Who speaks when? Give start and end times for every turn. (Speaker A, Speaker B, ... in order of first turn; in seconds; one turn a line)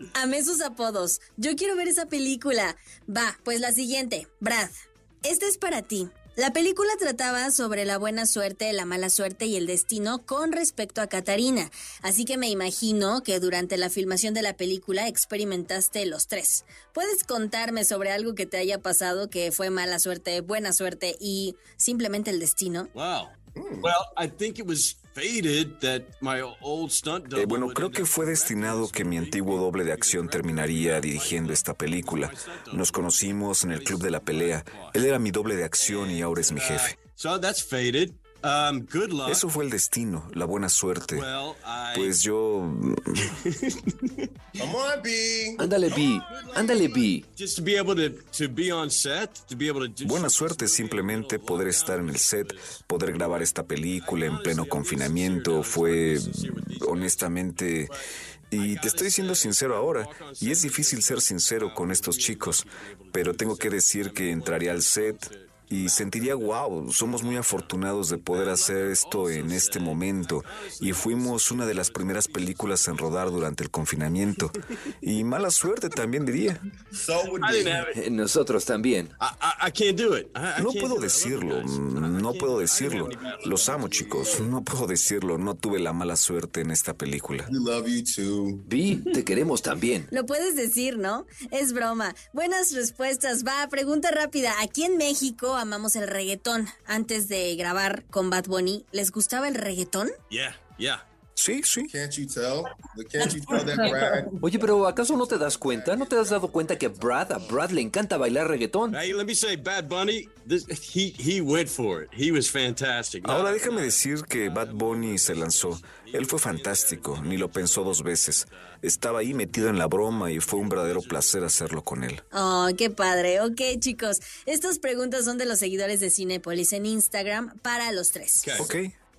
Speaker A: 0.1-22.9
Speaker B: 22.9-35.2
Speaker C: 23.6-23.9
Speaker D: 27.3-37.0
Speaker B: 35.7-39.4
Speaker D: 39.2-41.3
Speaker B: 41.0-42.2
Speaker D: 41.9-43.3
Speaker C: 44.6-45.8
Speaker E: 45.6-47.2
Speaker B: 45.8-73.5
Speaker D: 50.0-57.9
Speaker D: 58.5-76.6
Speaker C: 76.9-77.9
Speaker B: 77.4-78.0
Speaker E: 77.9-79.1
Speaker B: 79.2-84.5
Speaker D: 80.5-87.5
Speaker C: 82.8-84.4
Speaker C: 87.5-88.6
Speaker E: 88.7-90.1
Speaker A: 90.1-100.1
Speaker B: 100.3-101.0
Speaker D: 101.3-101.9
Speaker C: 101.9-107.7
Speaker E: 104.4-109.0
Speaker B: 108.9-121.9
Speaker D: 113.2-122.2
Speaker A: 122.3-128.7
Speaker B: 128.4-128.7
Speaker D: 128.6-128.9